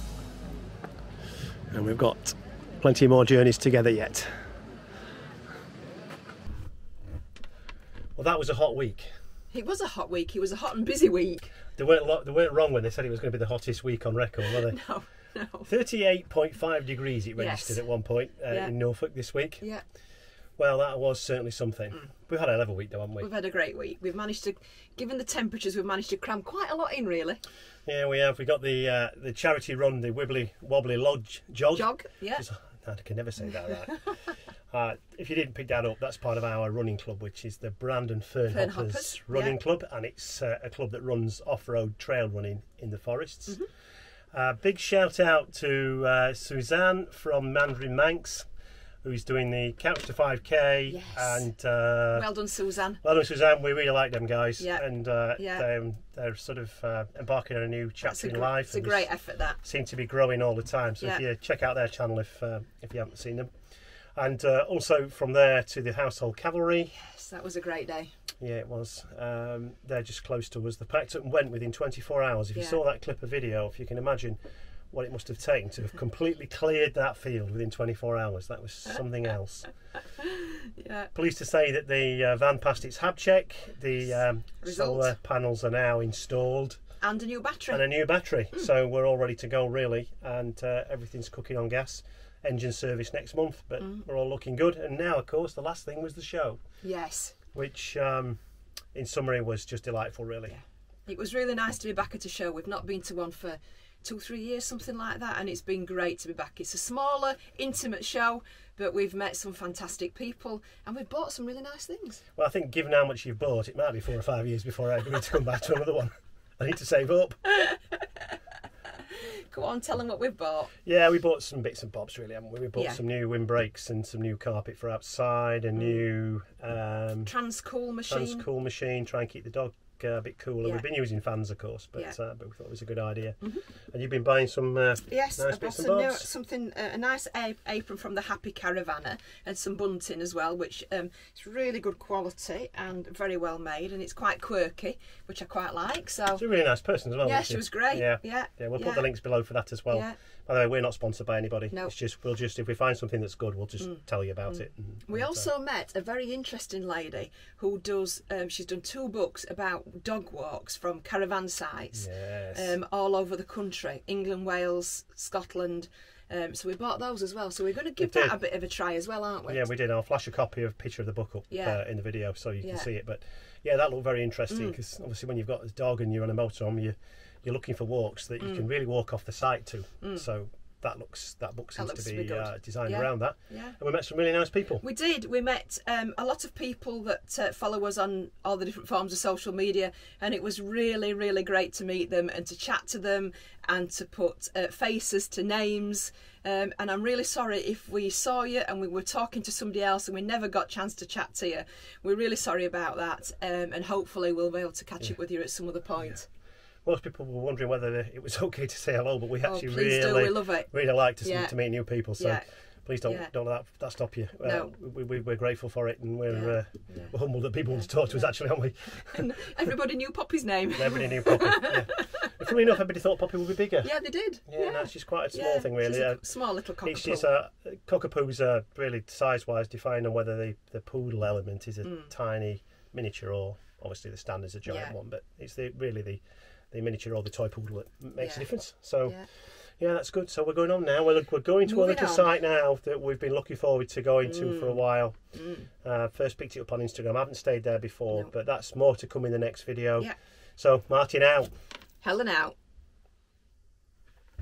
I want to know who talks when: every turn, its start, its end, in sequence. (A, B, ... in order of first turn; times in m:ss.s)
0:01.7-0:04.3 A
0:08.2-0:09.1 A
0:09.5-0:11.5 B
0:11.8-0:14.8 A
0:14.5-0:15.7 B
0:15.7-0:19.6 A
0:17.4-0:17.8 B
0:20.6-0:23.3 A
0:23.2-0:27.4 B
0:27.8-0:34.1 A
0:31.7-0:32.4 B
0:34.7-0:43.6 A
0:38.5-0:39.6 B
0:44.3-0:48.4 A
0:49.0-0:52.3 A
0:50.9-0:51.5 B
0:52.1-0:53.0 B
0:53.0-0:59.1 A
0:54.6-0:54.8 B
0:55.4-0:55.7 B
0:58.0-0:59.6 B
0:59.6-1:03.5 A
1:04.2-1:06.9 A
1:06.9-1:08.1 B
1:08.4-1:14.4 A
1:14.9-1:19.7 A
1:20.2-1:21.1 B
1:21.1-1:26.8 A
1:24.6-1:25.2 B
1:27.0-1:27.9 B
1:27.7-1:36.6 A
1:36.8-1:37.4 B
1:37.5-1:38.4 A
1:38.9-1:40.6 A
1:40.5-1:52.2 B
1:52.4-1:57.4 A
1:57.6-1:58.0 B
1:59.1-2:00.7 B
2:00.8-2:07.3 A
2:02.7-2:03.0 B
2:05.8-2:06.0 B
2:07.2-2:08.5 B
2:08.1-2:13.4 A
2:13.9-2:16.3 A
2:15.1-2:26.4 B
2:26.4-2:35.5 A
2:27.2-2:29.1 B
2:29.9-2:30.2 B
2:34.5-2:49.6 B
2:41.9-2:42.7 A
2:48.0-2:48.4 A
2:49.5-3:04.8 A
2:51.5-2:51.8 B
2:52.6-2:52.9 B
2:54.5-2:54.8 B
3:01.8-3:03.8 B
3:04.8-3:26.3 B
3:26.8-3:39.2 A
3:29.4-3:30.7 B
3:31.2-3:31.5 B
3:32.2-3:32.4 B
3:33.0-3:33.3 B
3:34.4-3:34.7 B
3:36.3-3:37.1 B
3:39.0-3:42.3 B
3:40.8-3:43.9 A
3:43.8-3:47.3 B
3:44.5-3:46.2 A
3:46.8-3:59.2 A
3:51.8-3:52.1 B
3:54.6-3:54.9 B
3:58.2-3:58.5 B
3:59.8-4:05.1 A
4:01.6-4:02.3 B
4:04.2-4:05.7 B
4:05.8-4:11.5 A
4:12.0-4:12.5 B